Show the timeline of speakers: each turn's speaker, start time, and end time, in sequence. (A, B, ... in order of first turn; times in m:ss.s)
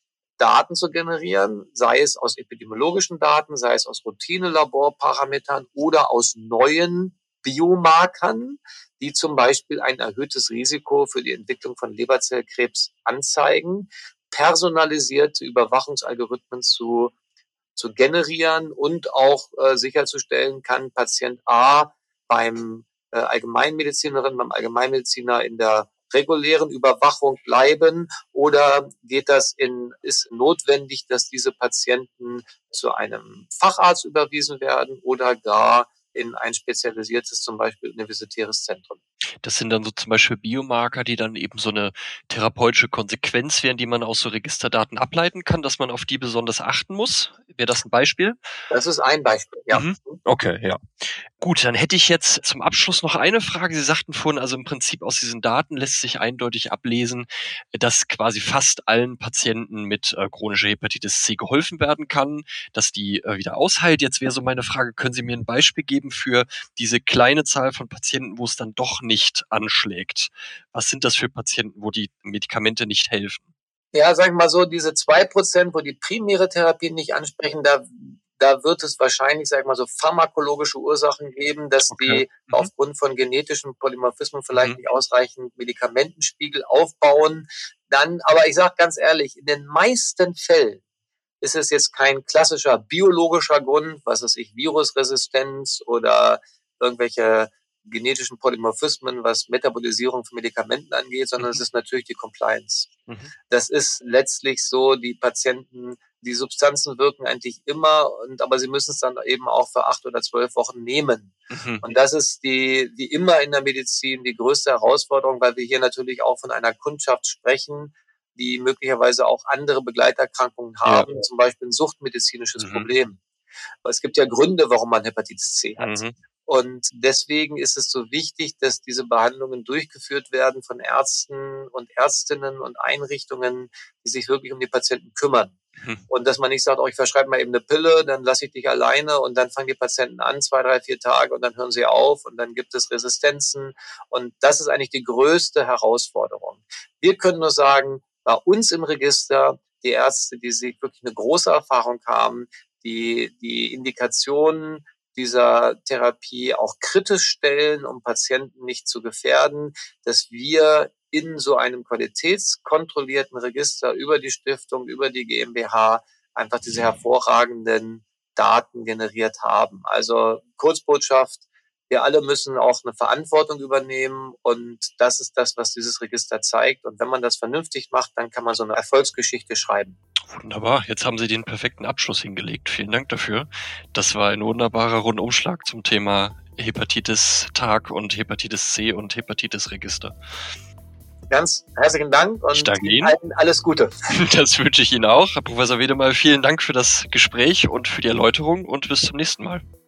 0:00.4-0:17.1 A
0:17.8-0:39.0 A
0:39.4-0:48.4 B
0:48.7-0:50.2 A
0:49.7-0:50.8 B
0:51.4-1:13.5 B
1:13.9-1:30.8 A
1:21.9-1:22.7 B
1:24.5-1:24.8 B
1:31.4-1:42.9 A
1:43.5-2:03.2 A
1:51.5-1:51.8 B
2:00.8-2:01.2 B
2:02.6-2:02.9 B
2:03.8-2:15.6 A
2:05.8-2:06.2 B
2:16.1-3:00.0 A
3:00.3-3:10.1 B
3:11.3-3:13.9 A
3:12.5-3:13.2 B
3:14.1-3:19.6 B